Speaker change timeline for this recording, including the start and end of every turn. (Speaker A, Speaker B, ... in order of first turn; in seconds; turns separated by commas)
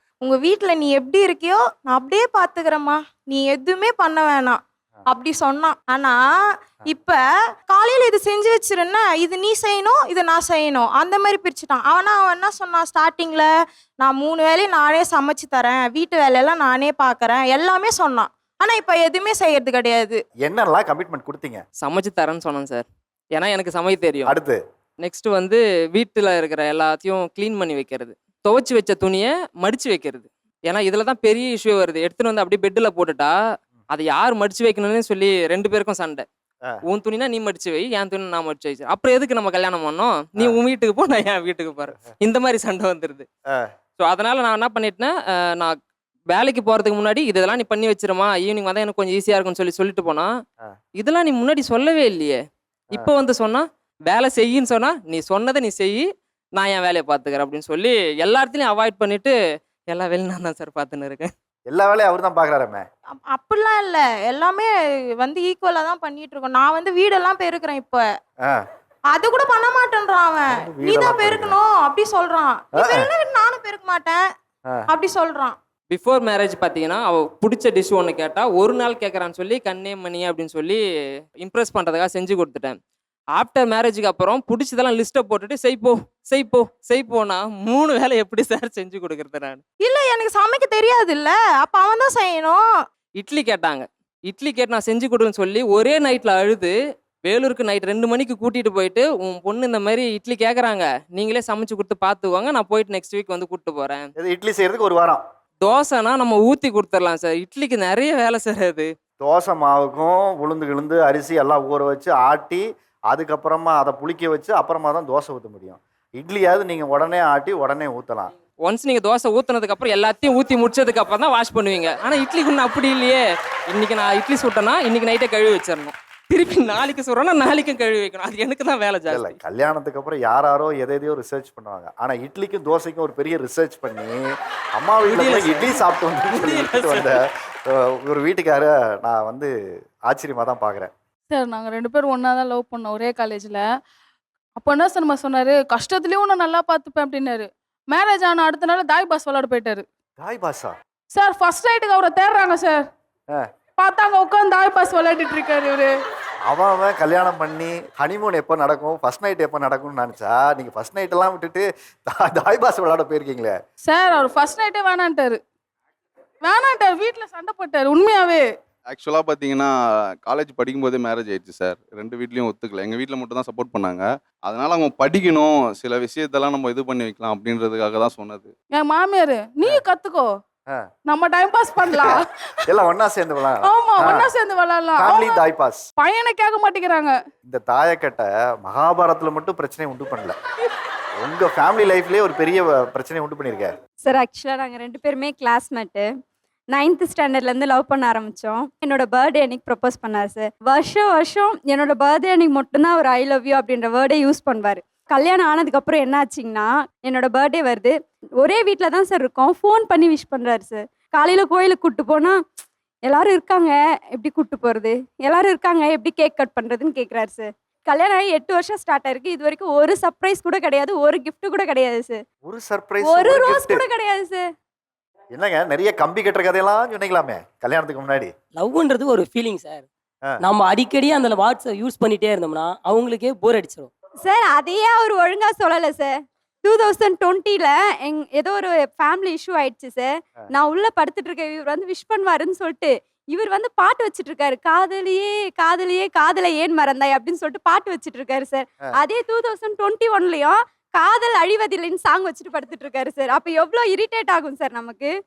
Speaker A: 0.2-20.2, Speaker B: 20.4-21.6, Speaker C: 21.8-24.3, Speaker B: 24.3-24.6, Speaker C: 25.0-33.3, Speaker C: 33.9-36.3, Speaker C: 36.9-43.3, Speaker C: 44.0-45.8, Speaker C: 46.3-50.3, Speaker C: 51.0-52.4, Speaker C: 52.9-56.0, Speaker C: 56.5-59.4, Speaker C: 59.9-61.3, Speaker B: 61.7-62.9, Speaker A: 63.1-68.2, Speaker A: 69.1-74.3, Speaker B: 70.5-71.5, Speaker B: 72.8-73.1, Speaker A: 74.9-75.6, Speaker C: 75.9-80.8, Speaker C: 81.4-82.8, Speaker C: 83.3-89.6, Speaker A: 89.8-92.6, Speaker C: 93.2-96.7, Speaker C: 97.2-104.1, Speaker B: 104.2-105.2, Speaker C: 105.6-108.9, Speaker B: 109.2-118.3, Speaker C: 118.6-129.4, Speaker B: 129.1-134.2, Speaker B: 134.8-139.5, Speaker C: 135.1-137.1, Speaker B: 140.1-140.9, Speaker D: 141.3-143.7, Speaker D: 144.6-149.8, Speaker B: 150.2-150.8, Speaker D: 151.1-152.9, Speaker D: 153.8-155.9, Speaker B: 156.5-163.6, Speaker D: 163.8-165.4, Speaker D: 166.4-168.5, Speaker E: 168.9-178.5, Speaker D: 178.7-180.3, Speaker D: 181.1-182.3, Speaker B: 181.9-184.3, Speaker D: 183.6-185.4, Speaker B: 185.0-185.8, Speaker D: 186.0-187.2, Speaker B: 187.4-190.4, Speaker B: 191.2-193.7, Speaker F: 194.1-196.1, Speaker F: 196.7-212.4, Speaker F: 213.1-222.2, Speaker B: 222.5-223.8, Speaker F: 223.0-224.4, Speaker B: 225.3-228.3, Speaker G: 228.6-229.9, Speaker G: 230.4-233.9, Speaker F: 234.2-255.1